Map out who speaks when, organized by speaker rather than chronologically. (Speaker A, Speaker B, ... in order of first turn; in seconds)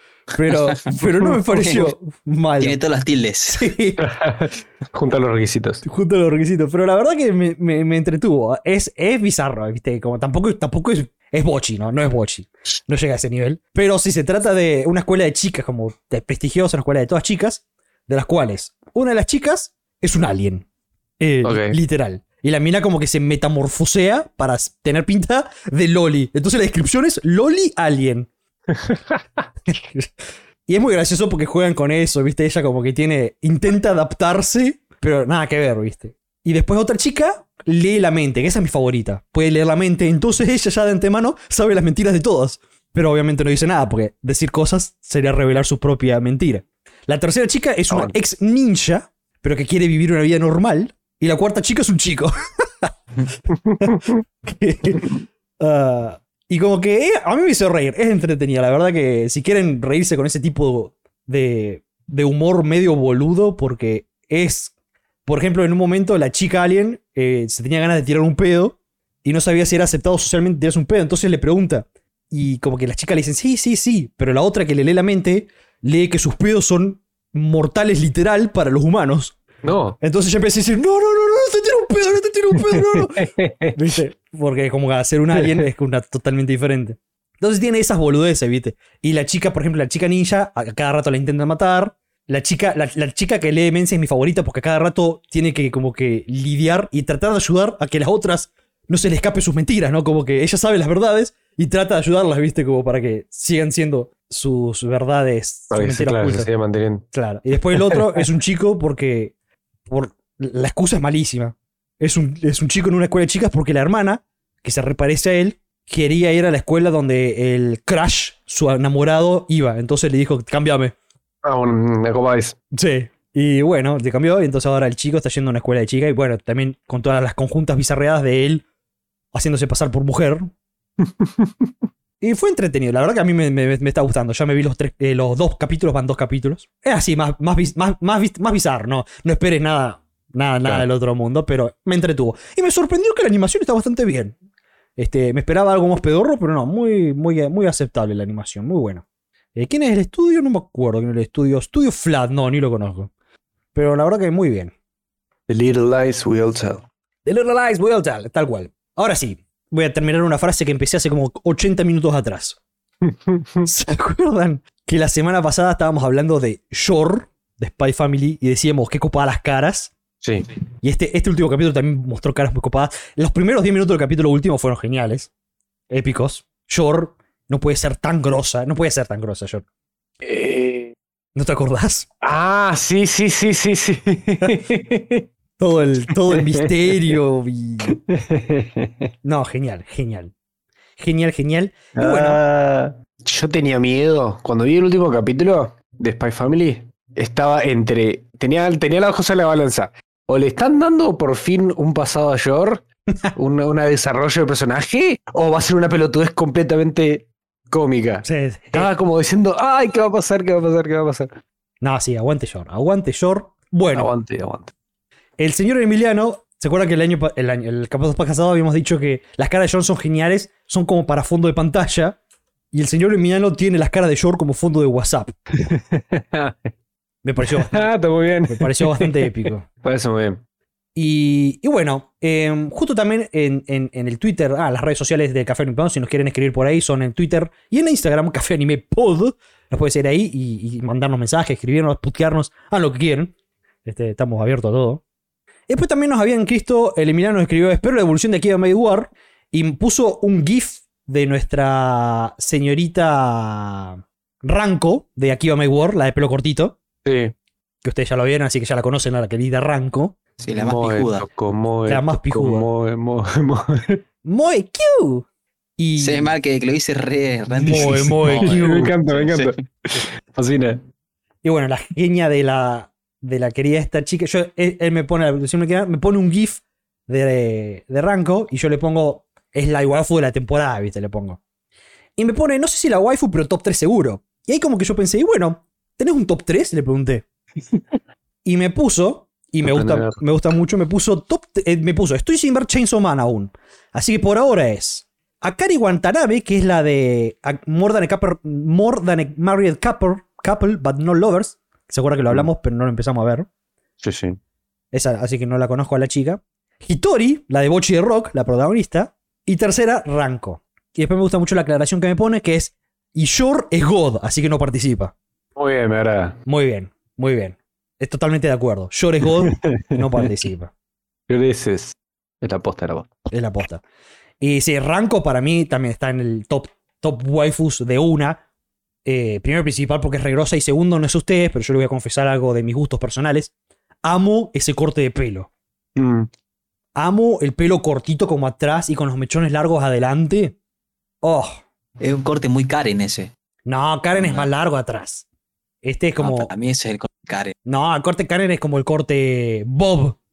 Speaker A: 0.3-2.8, 3.5-4.0, 5.8-20.7, 21.2-28.3, 29.7-30.1, 30.7-52.9, 53.8-64.7, 65.3-79.4, 80.0-106.5, 107.1-109.3, 109.9-121.0, 122.7-128.7, 129.3-130.5, 132.2-144.4, 145.0-149.0, 149.5-153.1, 153.7-154.7, 157.2-162.6, 163.6-169.9, 170.8-175.3, 175.9-179.7, 181.3-182.1, 185.6-188.0, 189.2-190.3, 191.0-192.4, 208.2-208.9, 211.8-214.1, 215.4-222.2, 222.7-225.4, 227.2-227.9, 228.5-229.7, 230.9-243.3, 243.8-245.0, 245.7-256.8, 257.8-260.2, 261.9-262.7, 264.2-265.3, 265.8-266.3, 267.6-268.9, 271.4-281.4, 282.2-287.3, 288.4-303.5, 304.9-315.1, 316.5-320.7, 323.3-323.8, 324.4-328.4, 329.1-335.5, 336.9-340.6, 341.2-341.6, 343.7-345.2, 345.8-346.5, 347.7-350.2
Speaker B: 0.5-1.9, 2.6-3.7, 260.4-261.3, 266.0-269.5, 342.0-343.3, 344.1-344.5, 346.2-347.6
Speaker C: 4.0-5.8, 21.4-21.8, 28.7-29.2, 47.9-48.2, 53.7-54.1, 79.6-80.0, 82.5-84.0, 85.3-85.6, 105.7-107.0, 107.7-108.2, 121.4-122.6, 131.0-131.5, 155.5-156.9, 163.1-163.7, 170.2-170.5, 180.2-180.9, 182.2-185.3, 186.3-186.7, 187.9-189.1, 191.9-211.3, 213.9-214.7, 225.6-226.7, 227.4-230.4, 257.0-257.3, 260.6-264.0, 267.6-270.8, 289.6-290.2, 304.0-304.4, 315.6-316.4, 319.3-320.3, 321.3-323.1, 336.0-336.3